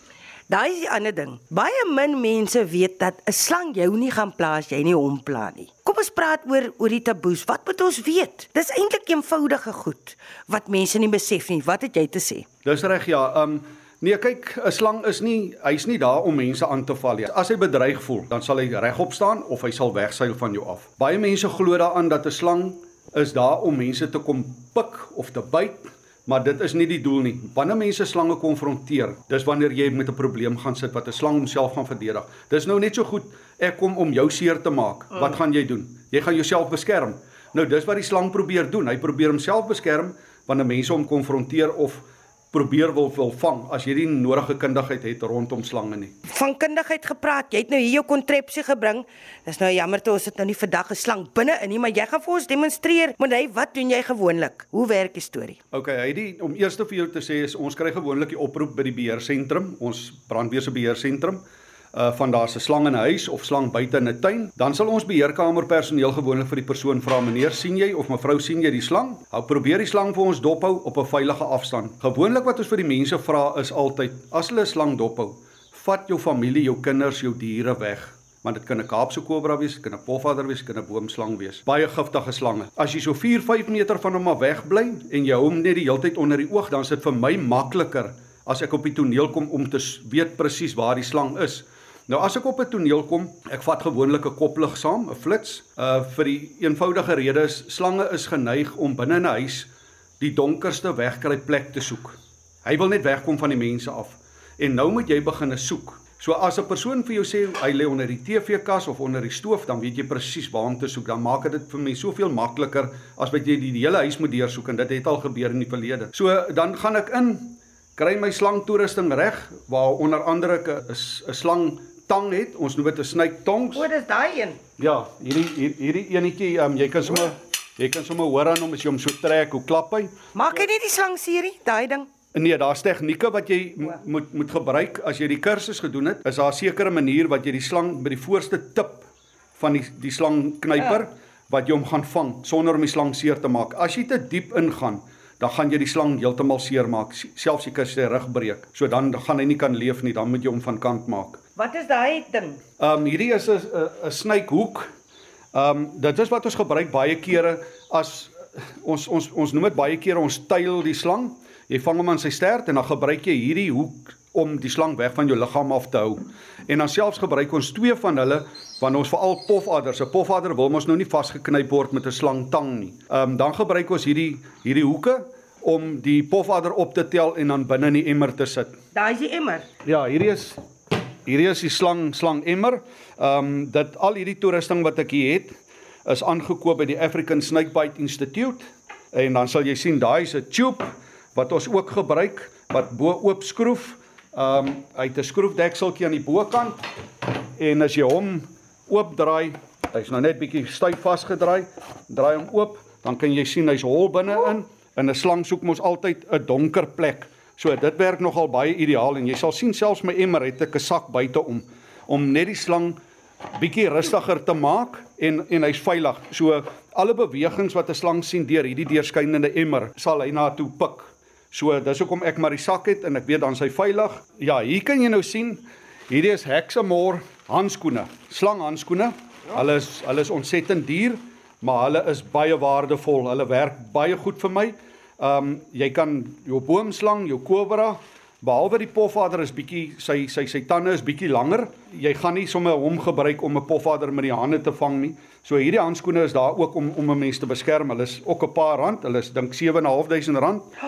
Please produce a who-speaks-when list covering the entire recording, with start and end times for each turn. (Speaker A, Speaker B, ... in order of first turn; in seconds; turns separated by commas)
Speaker A: 0.5-12.4, Speaker B: 12.7-46.1, Speaker A: 46.3-55.6, Speaker B: 55.7-61.4, Speaker B: 61.9-99.7, Speaker B: 100.2-123.9, Speaker A: 123.8-124.6, Speaker B: 124.8-130.1, Speaker A: 130.3-132.1, Speaker B: 132.3-151.4, Speaker A: 151.6-152.6, Speaker B: 152.8-154.9, Speaker B: 155.5-178.8, Speaker A: 178.9-179.7, Speaker B: 179.8-180.6, Speaker B: 181.2-196.8, Speaker B: 197.6-213.0, Speaker B: 213.5-250.7